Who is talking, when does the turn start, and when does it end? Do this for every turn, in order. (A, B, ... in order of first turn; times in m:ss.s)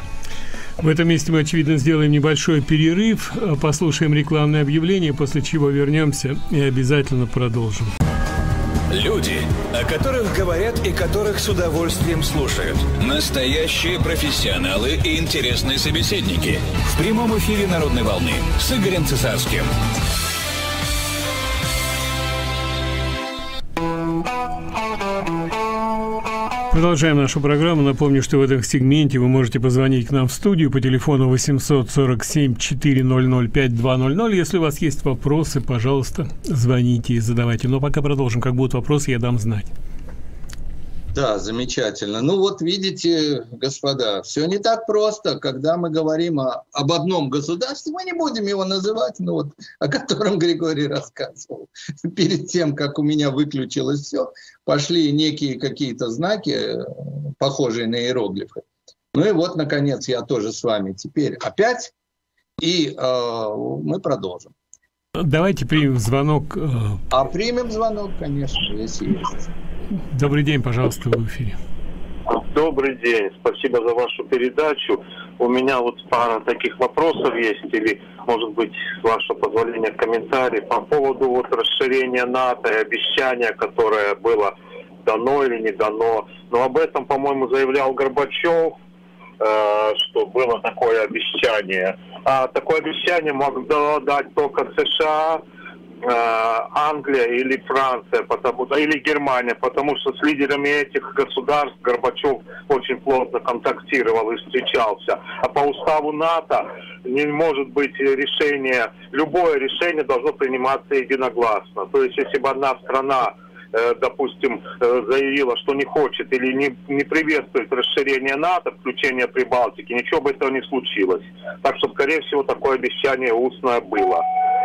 0:00.8-0:07.9 A
0:08.9-0:19.7 B
0:26.7-0:39.7 A
0:41.1-1:01.9 C
1:02.6-1:04.5 C
1:05.2-1:07.0 A
1:07.1-1:09.5 C
1:10.1-1:11.6 A
1:12.3-1:28.8 D
1:29.4-1:35.4 D
1:36.0-2:04.2 D